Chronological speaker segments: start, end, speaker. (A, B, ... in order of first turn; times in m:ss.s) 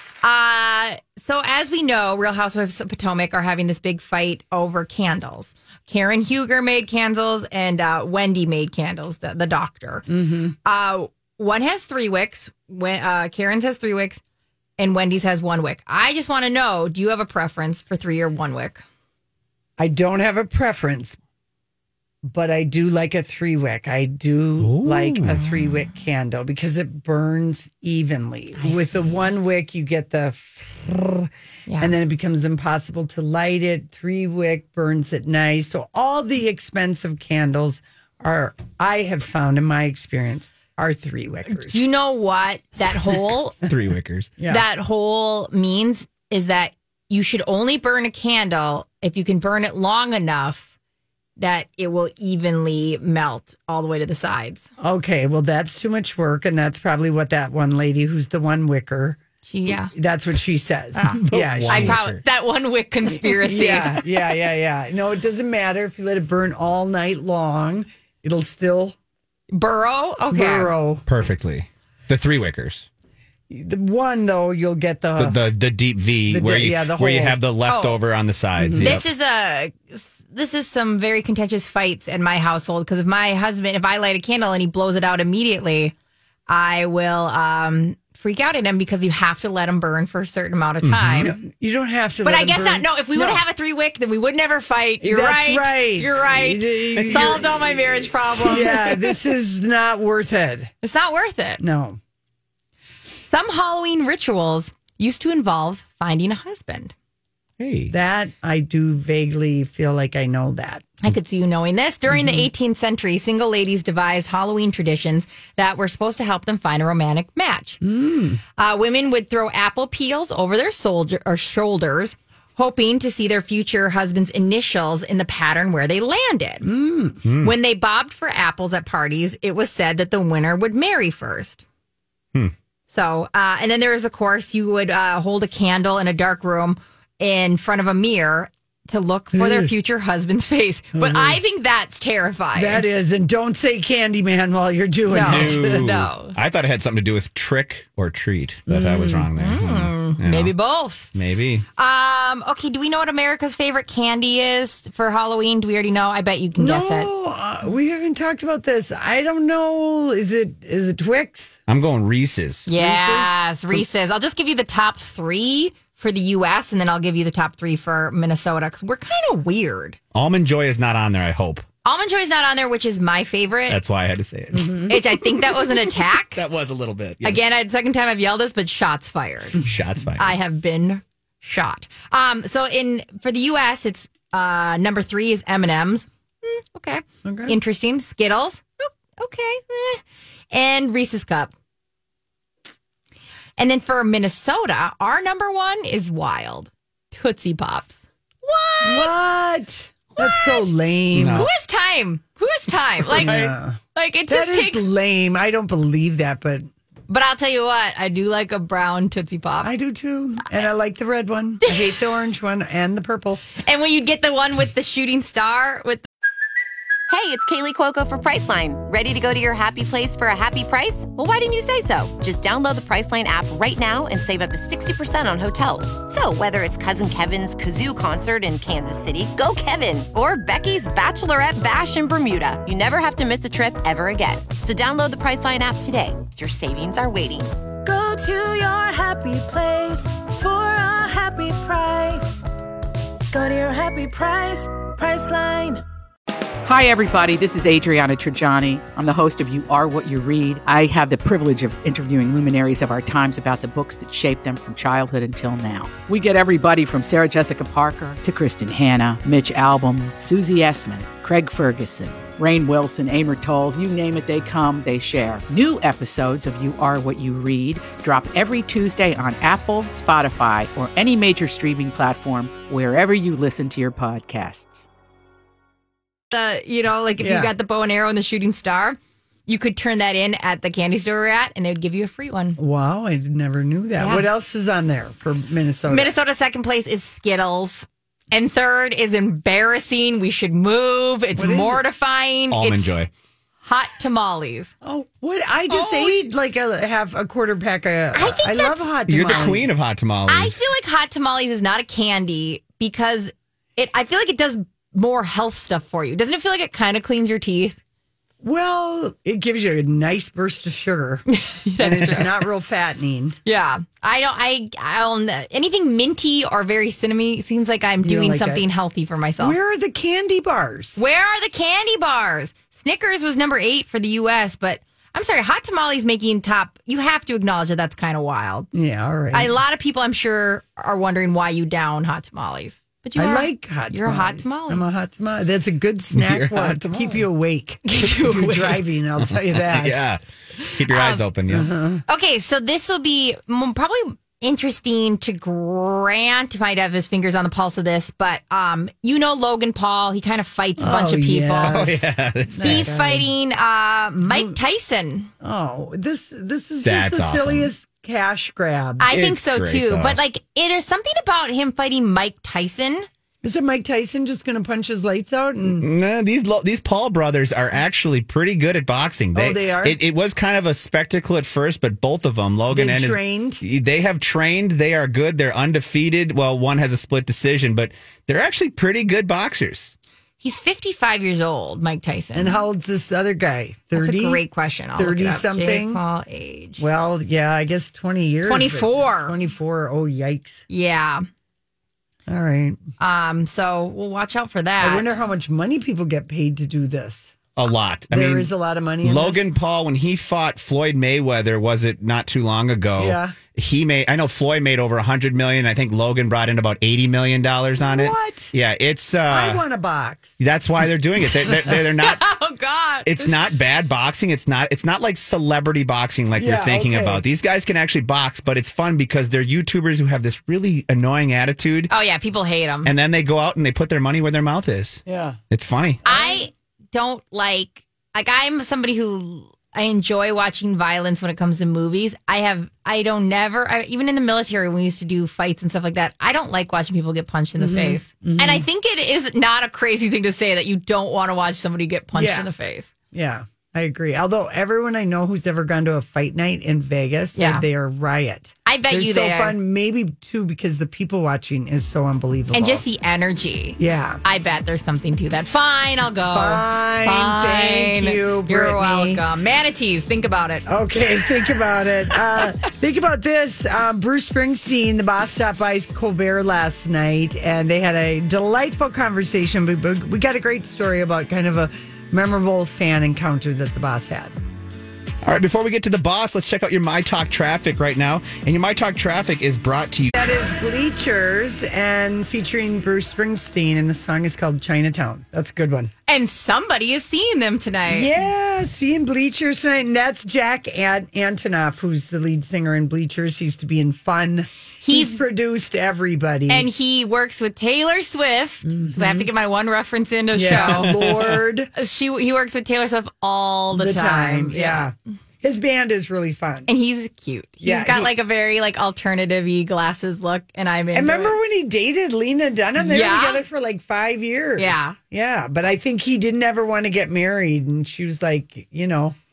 0:00.2-0:10.1 A
0:10.1-0:10.5 B
0:10.6-0:14.2 A
0:14.8-0:18.8 A
0:19.8-0:21.2 B
0:22.2-0:41.8 B
0:24.6-0:25.5 C
0:28.6-0:28.9 A
0:31.7-0:31.9 A
0:41.5-0:43.6 A
0:43.6-0:44.3 C
0:44.4-0:44.6 B
0:44.5-0:50.7 A
0:51.4-0:54.7 A
0:54.8-0:59.2 B
0:59.5-0:59.9 A
0:59.9-1:02.1 B
1:01.0-1:04.0 A
1:01.2-1:02.2 C
1:03.1-1:09.0 B
1:09.5-1:10.7 A
1:10.3-1:11.0 B
1:11.1-1:12.9 C
1:13.5-1:15.4 B
1:15.2-1:19.1 C
1:16.3-1:17.4 B
1:17.6-1:18.0 A
1:18.6-1:19.0 B
1:18.8-1:25.9 A
1:26.5-1:31.3 A
1:30.8-1:31.3 C
1:31.2-1:33.4 B
1:32.2-1:38.9 A
1:35.0-1:40.7 B
1:37.0-1:38.7 C
1:40.8-1:41.6 A
1:41.6-1:42.0 B
1:43.2-1:46.9 A
1:47.6-1:47.9 C
1:47.9-1:50.9 B
1:51.0-1:57.8 A
1:52.1-1:52.5 B
1:57.8-1:58.4 B
1:58.6-2:06.6 A
2:06.6-2:07.2 B
2:07.2-2:07.5 C
2:07.4-2:11.6 A
2:12.9-2:22.8 A
2:19.3-2:19.7 B
2:21.0-2:21.4 B
2:22.5-2:25.9 B
2:25.1-2:26.4 A
2:25.1-2:30.5 C
2:28.7-2:29.3 B
2:29.4-2:31.1 A
2:31.1-2:31.6 C
2:31.8-2:37.1 A
2:36.6-2:41.6 B
2:41.7-2:42.7 C
2:42.7-2:50.0 A
2:42.7-2:43.8 B
2:50.1-2:51.6 C
2:51.8-2:53.8 A
2:53.7-2:55.4 C
2:54.9-2:56.4 A
2:56.4-2:57.4 C
2:57.2-2:59.6 A
2:59.6-3:00.4 C
3:00.2-3:10.0 A
3:07.2-3:07.6 B
3:10.5-3:11.5 A
3:13.6-3:19.1 A
3:18.8-3:21.5 B
3:20.2-3:20.7 A
3:21.1-3:21.5 C
3:21.3-3:23.4 A
3:23.1-3:26.7 B
3:23.1-3:23.5 C
3:24.0-3:24.9 A
3:27.1-3:29.7 A
3:29.6-3:33.4 B
3:33.6-3:36.0 A
3:37.1-3:57.5 D
3:57.8-4:02.4 E
4:03.3-4:05.8 E
4:06.6-4:34.9 F
4:36.3-4:42.6 A
4:37.2-4:37.5 B
4:42.6-4:46.1 B
4:44.0-4:44.2 A
4:45.9-4:53.0 A
4:51.4-4:51.8 B
4:52.5-4:53.1 C
4:53.6-4:54.7 A
4:54.8-4:59.8 B
4:55.7-4:56.2 A
4:58.1-4:58.8 A
4:59.1-5:00.6 C
5:00.3-5:07.8 A
5:08.4-5:11.2 B
5:11.3-5:12.5 A
5:11.8-5:13.4 B
5:13.5-5:19.6 A
5:18.0-5:18.6 B
5:19.4-5:21.0 B
5:21.0-5:28.7 A
5:28.7-5:29.6 B
5:29.3-5:34.8 A
5:33.2-5:40.0 B
5:36.1-5:37.2 C
5:37.9-5:38.8 A
5:39.2-5:40.2 C
5:40.6-5:41.2 A
5:40.7-5:41.7 C
5:41.5-5:42.0 B
5:42.1-5:51.9 A
5:50.8-5:53.3 B
5:51.6-5:52.9 C
5:52.6-5:55.3 A
5:54.2-5:54.6 B
5:55.4-5:59.1 B
5:56.8-5:57.7 C
5:59.0-6:03.1 A
5:59.1-6:00.2 C
6:03.4-6:05.9 B
6:05.7-6:20.0 C
6:09.3-6:10.0 B
6:12.7-6:13.6 B
6:20.4-6:22.6 A
6:22.3-6:24.4 B
6:24.0-6:26.8 A
6:25.0-6:26.0 B
6:26.8-6:30.6 B
6:28.4-6:29.4 A
6:30.7-6:31.2 A
6:32.3-6:32.8 B
6:33.0-6:35.2 A
6:34.8-6:37.3 B
6:37.6-6:38.5 C
6:38.1-6:39.4 B
6:39.0-6:49.6 C
6:43.0-6:43.4 B
6:47.8-6:48.5 B
6:49.3-6:50.4 B
6:50.4-6:52.2 C
6:51.5-6:53.3 A
6:53.0-7:01.9 C
6:56.4-6:57.2 B
7:01.9-7:02.9 A
7:02.8-7:06.0 C
7:05.0-7:05.4 B
7:06.0-7:06.5 B
7:06.0-7:22.9 A
7:17.6-7:18.7 B
7:22.1-7:22.5 B
7:23.1-7:32.8 B
7:27.4-7:27.6 A
7:28.7-7:29.6 A
7:32.5-7:40.6 A
7:33.8-7:34.2 B
7:36.3-7:39.2 B
7:40.7-7:54.3 B
7:55.2-8:00.2 C
8:00.1-8:05.9 B
8:06.1-8:08.1 A
8:07.9-8:16.7 B
8:14.8-8:15.2 A
8:16.5-8:21.0 A
8:18.7-8:19.3 B
8:20.3-8:21.7 B
8:20.7-8:21.1 C
8:21.8-8:24.9 A
8:23.7-8:26.7 B
8:26.7-8:31.3 A
8:27.6-8:28.1 B
8:30.9-8:39.2 B
8:32.8-8:33.4 A
8:34.6-8:35.0 A